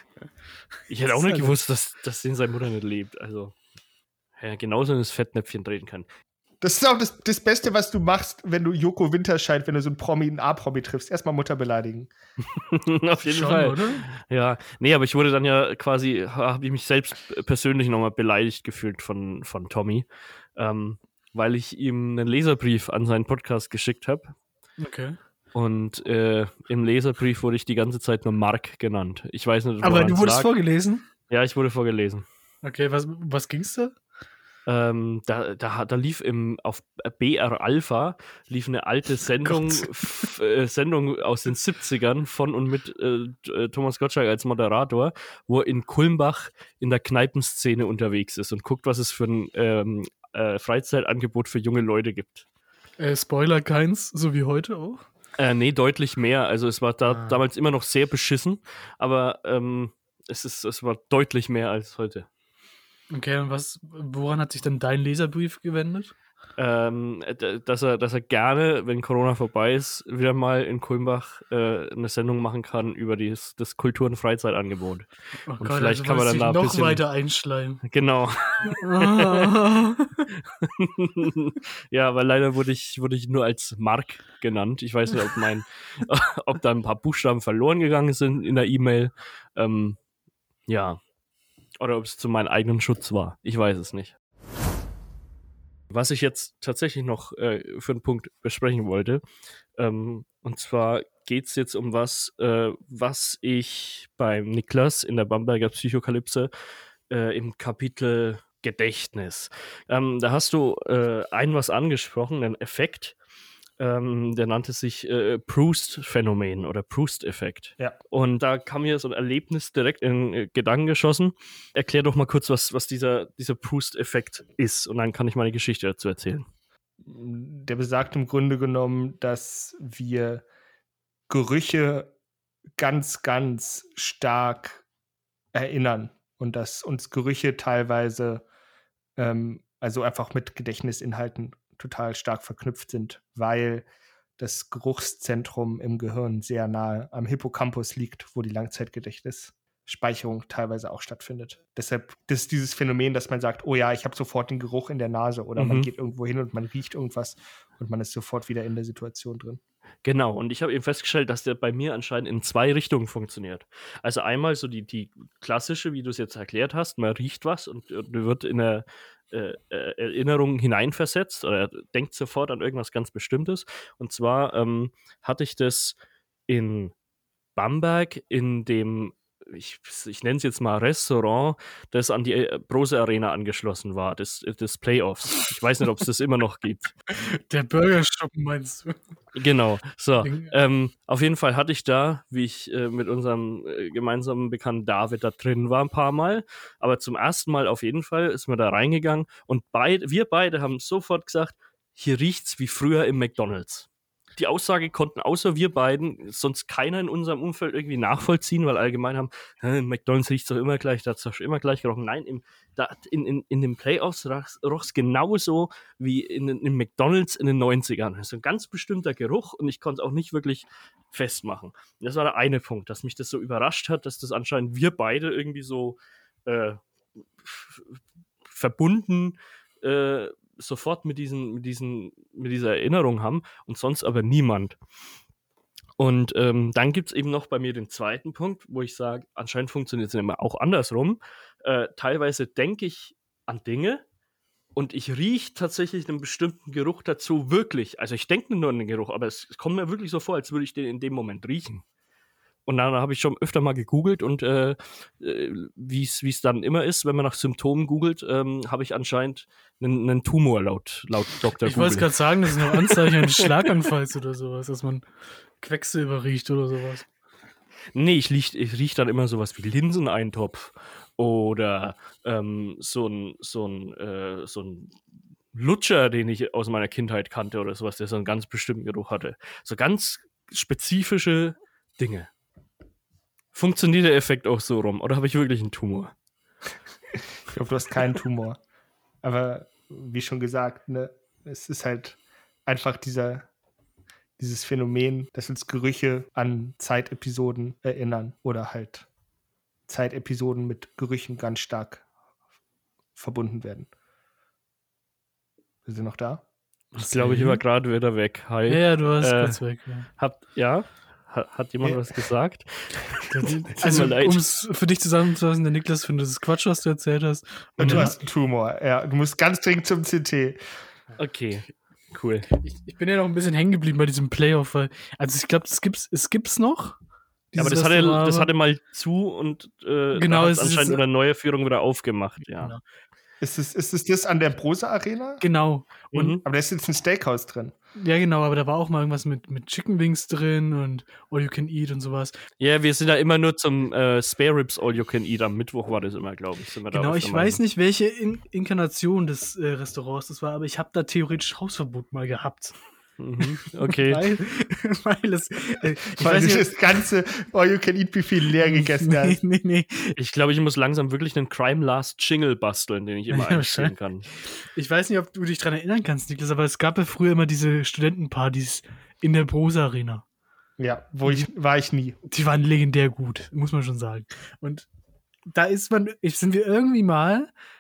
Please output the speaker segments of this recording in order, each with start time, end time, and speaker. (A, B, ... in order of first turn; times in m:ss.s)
0:00.9-0:03.6 A
0:01.0-0:01.5 B
0:04.4-0:06.1 A
0:06.6-0:12.1 C
0:12.6-0:24.3 A
0:13.2-0:14.0 B
0:24.8-0:25.2 B
0:25.5-0:30.5 A
0:29.8-0:31.0 B
0:31.3-0:32.3 A
0:32.6-0:34.0 B
0:34.7-0:52.5 A
0:39.4-0:40.3 B
0:53.0-0:55.0 B
0:55.4-1:02.3 A
0:57.1-0:57.4 B
1:03.1-1:06.1 B
1:06.6-1:17.0 A
1:15.5-1:17.8 B
1:17.8-1:19.6 A
1:18.7-1:20.3 B
1:20.5-1:30.0 A
1:30.7-1:31.0 A
1:31.8-1:34.1 A
1:35.9-1:39.2 A
1:39.8-1:46.5 A
1:47.1-1:53.2 A
1:53.8-2:06.4 A
2:07.0-2:10.4 C
2:11.3-2:12.1 C
2:12.8-2:14.8 C
2:15.5-2:18.4 C
2:19.2-2:23.9 C
2:24.4-2:39.6 C
2:35.6-2:35.9 A
2:40.0-2:56.0 A
2:56.5-2:56.9 A
2:57.6-3:06.9 A
3:07.1-3:09.0 B
3:09.4-3:46.8 A
3:10.2-3:10.5 B
3:47.4-3:54.8 A
3:56.0-4:04.0 A
4:04.8-4:11.8 A
4:12.7-4:22.2 A
4:21.6-4:25.1 B
4:22.7-4:23.4 A
4:25.6-4:27.1 B
4:28.0-4:35.0 A
4:35.5-4:42.3 A
4:43.5-4:46.1 A
4:47.5-4:48.6 C
4:49.2-4:53.5 C
4:54.4-4:59.1 C
4:59.9-5:02.0 C
5:03.2-5:03.9 C
5:05.9-5:06.4 C
5:07.0-5:07.6 B
5:07.0-5:14.4 A
5:08.7-5:10.1 B
5:11.8-5:12.2 C
5:13.3-5:18.1 B
5:17.8-5:20.6 C
5:17.8-5:18.1 A
5:21.2-5:22.5 A
5:22.5-5:27.0 B
5:27.5-5:27.8 C
5:27.6-5:28.5 B
5:27.6-5:32.7 A
5:30.2-5:31.0 B
5:33.4-5:35.4 C
5:35.4-5:36.4 B
5:36.1-5:36.4 A
5:36.4-5:37.7 C
5:38.0-5:42.4 B
5:42.6-5:47.6 A
5:46.9-5:52.8 B
5:53.2-5:54.2 A
5:54.0-5:56.8 B
5:56.2-5:59.4 C
5:58.6-6:00.1 B
6:00.2-6:04.2 A
6:03.3-6:10.2 B
6:10.8-6:12.2 C
6:12.3-6:14.9 B
6:15.5-6:17.5 B